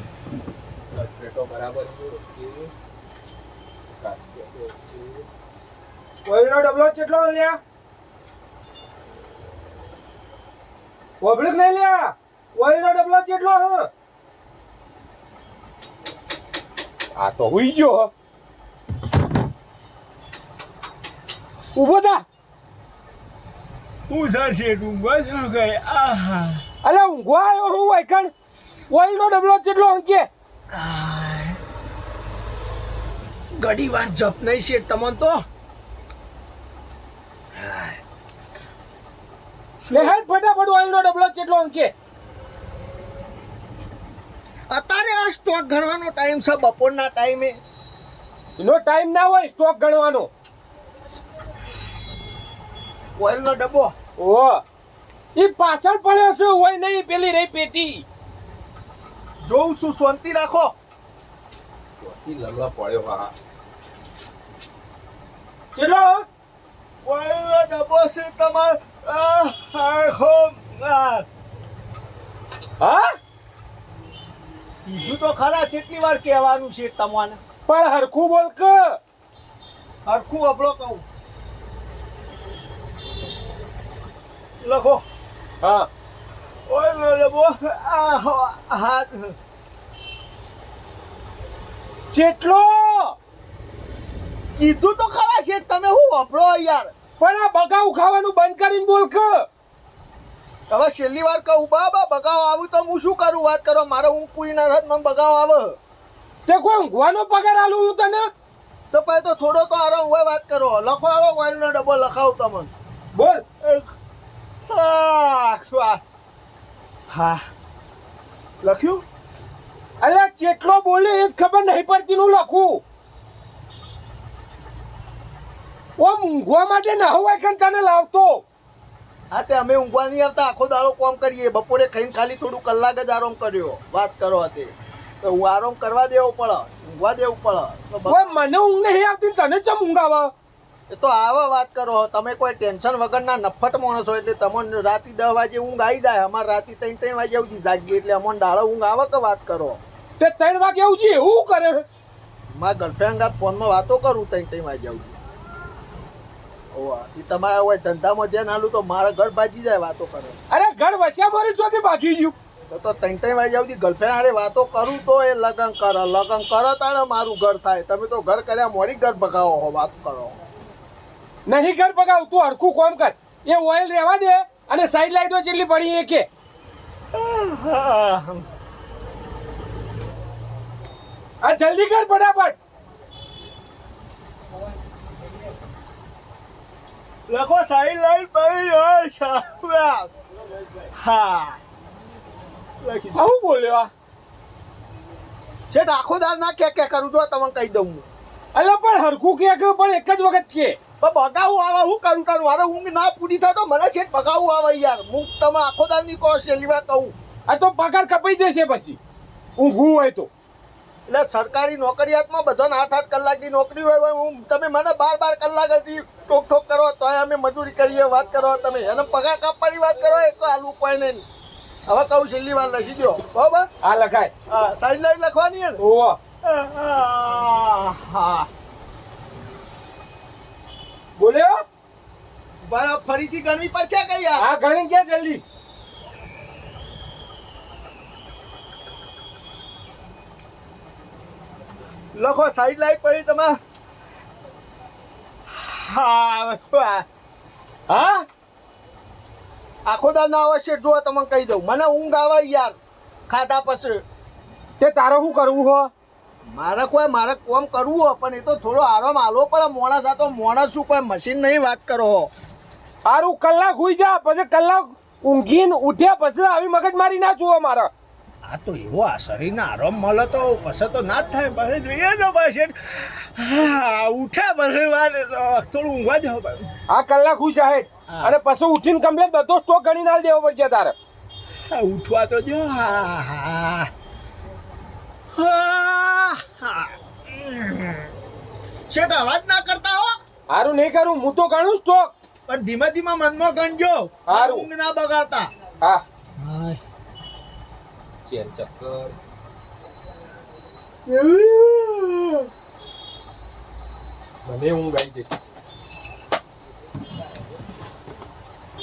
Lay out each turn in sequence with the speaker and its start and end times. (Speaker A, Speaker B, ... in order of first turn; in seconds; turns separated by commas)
Speaker A: 0.9-2.7, Speaker A: 3.9-5.2, Speaker B: 6.2-7.6, Speaker B: 11.2-13.9, Speaker B: 17.2-18.1, Speaker B: 21.7-22.2, Speaker C: 24.1-26.6, Speaker B: 26.8-28.3, Speaker B: 28.9-30.3, Speaker C: 30.7-31.6, Speaker C: 33.6-35.4, Speaker C: 37.5-38.0, Speaker C: 39.8-40.2, Speaker B: 39.9-41.9, Speaker C: 44.7-47.6, Speaker B: 48.6-50.3, Speaker C: 53.2-53.9, Speaker B: 54.2-54.6, Speaker B: 55.3-58.0, Speaker C: 59.4-60.7, Speaker A: 62.0-63.3, Speaker B: 65.7-66.2, Speaker C: 67.0-71.2, Speaker B: 72.8-73.1, Speaker C: 74.8-77.4, Speaker B: 77.7-79.0, Speaker C: 80.0-81.0, Speaker C: 84.6-85.0, Speaker B: 85.6-85.9, Speaker C: 86.7-89.3, Speaker B: 92.1-93.2, Speaker C: 94.6-96.9, Speaker B: 97.2-99.5, Speaker C: 100.7-105.8, Speaker B: 106.5-108.3, Speaker C: 108.9-112.7, Speaker B: 113.1-113.4, Speaker C: 113.6-113.9, Speaker C: 114.7-116.0, Speaker C: 117.1-117.4, Speaker C: 118.6-119.0, Speaker B: 120.0-122.8, Speaker B: 126.0-128.4, Speaker C: 129.3-138.2, Speaker B: 138.1-140.3, Speaker C: 140.9-149.8, Speaker B: 150.2-151.8, Speaker C: 152.5-155.1, Speaker C: 156.7-160.4, Speaker B: 160.5-162.3, Speaker C: 162.7-170.4, Speaker B: 171.4-176.2, Speaker C: 177.1-178.4, Speaker B: 181.4-182.6, Speaker C: 187.3-190.1, Speaker C: 190.9-191.6, Speaker C: 192.8-193.2, Speaker B: 193.1-193.9, Speaker C: 195.7-198.0, Speaker B: 198.5-200.8, Speaker C: 201.0-207.1, Speaker B: 207.5-209.0, Speaker B: 209.6-210.3, Speaker C: 211.1-221.2, Speaker C: 221.9-223.7, Speaker B: 223.8-224.3, Speaker C: 224.5-225.8, Speaker B: 225.8-226.2, Speaker C: 226.4-228.5, Speaker B: 231.2-231.6, Speaker C: 232.7-234.5, Speaker B: 234.4-235.4, Speaker C: 242.1-243.5, Speaker C: 245.5-247.0, Speaker B: 247.9-248.2, Speaker C: 249.8-252.8, Speaker C: 253.3-254.0, Speaker B: 254.8-255.9, Speaker C: 256.5-262.3, Speaker B: 263.0-267.9, Speaker C: 268.4-276.7, Speaker B: 276.9-280.9, Speaker C: 278.1-278.4, Speaker C: 281.7-283.9, Speaker C: 285.3-288.1, Speaker C: 288.9-290.2, Speaker B: 290.5-292.1, Speaker C: 292.5-295.5, Speaker B: 294.3-294.7, Speaker C: 296.4-296.8, Speaker A: 298.3-299.0, Speaker B: 298.3-299.1, Speaker C: 301.1-302.5, Speaker A: 304.5-305.2, Speaker B: 304.5-305.2